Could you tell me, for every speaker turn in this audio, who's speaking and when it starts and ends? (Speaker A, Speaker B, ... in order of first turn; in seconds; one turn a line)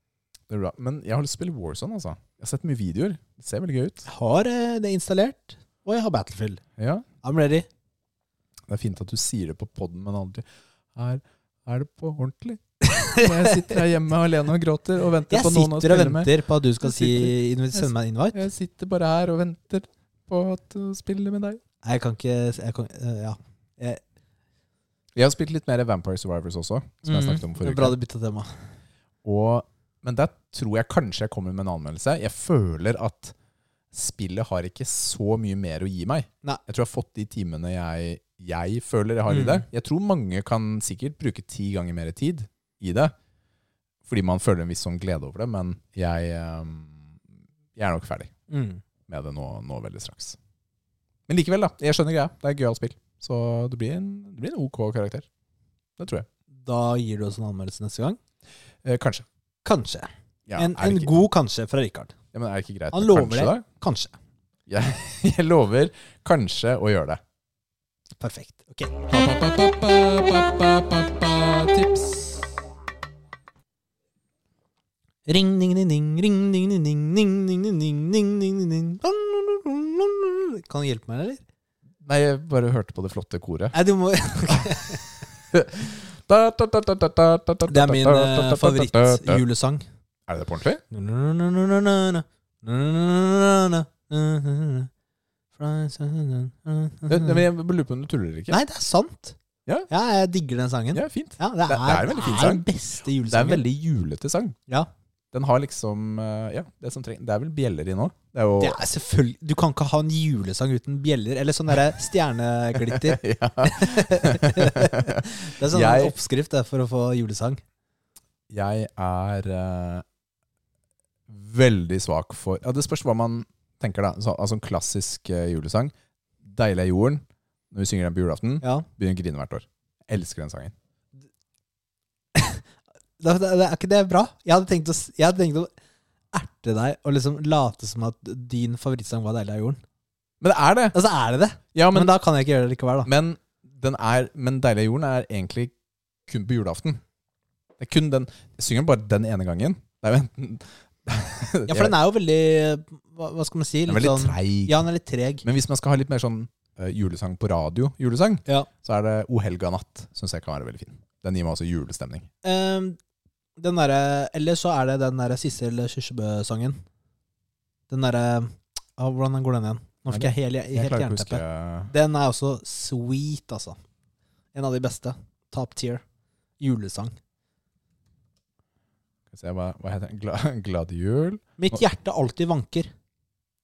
Speaker A: 0.5-4.1
Speaker B: 4.1-6.6
Speaker A: 6.8-7.1
Speaker B: 7.2-7.7
Speaker A: 8.7-12.6
Speaker B: 12.8-13.8
Speaker A: 13.1-16.3
Speaker B: 15.3-18.5
Speaker A: 16.8-21.6
Speaker B: 21.8-24.0
Speaker A: 25.1-27.9
Speaker B: 27.1-28.5
Speaker A: 29.2-33.4
Speaker A: 33.9-43.1
Speaker B: 39.3-39.7
Speaker A: 44.0-47.2
Speaker A: 47.8-48.3
Speaker B: 48.5-48.8
Speaker A: 49.1-50.4
Speaker A: 51.3-55.3
Speaker A: 56.0-56.3
Speaker B: 56.5-58.2
Speaker A: 58.8-59.3
Speaker B: 59.6-62.1
Speaker A: 60.5-61.1
Speaker A: 62.3-63.6
Speaker B: 62.9-64.2
Speaker A: 64.7-67.2
Speaker B: 68.2-69.0
Speaker A: 69.1-72.4
Speaker B: 75.3-81.4
Speaker A: 82.0-83.8
Speaker B: 83.7-85.0
Speaker A: 85.5-89.4
Speaker B: 87.7-89.9
Speaker A: 90.3-90.8
Speaker B: 90.9-94.9
Speaker B: 95.6-97.5
Speaker A: 97.1-98.6
Speaker B: 98.5-99.4
Speaker B: 99.9-103.6
Speaker A: 100.9-102.6
Speaker A: 103.2-104.6
Speaker A: 105.3-108.8
Speaker B: 108.6-117.6
Speaker A: 112.8-116.1
Speaker A: 118.5-120.0
Speaker A: 121.3-130.7
Speaker B: 128.6-128.9
Speaker B: 132.3-132.6
Speaker B: 133.2-135.7
Speaker B: 136.3-139.8
Speaker A: 140.4-141.0
Speaker B: 140.9-143.1
Speaker A: 141.7-142.1
Speaker A: 143.1-145.7
Speaker A: 146.3-147.0
Speaker A: 147.8-151.9
Speaker B: 151.7-155.4
Speaker A: 153.9-154.8
Speaker A: 155.4-162.3
Speaker B: 162.4-163.0
Speaker B: 163.6-166.8
Speaker B: 167.9-173.8
Speaker A: 170.1-171.9
Speaker B: 174.5-176.0
Speaker B: 176.6-177.2
Speaker A: 179.3-181.8
Speaker B: 181.6-182.9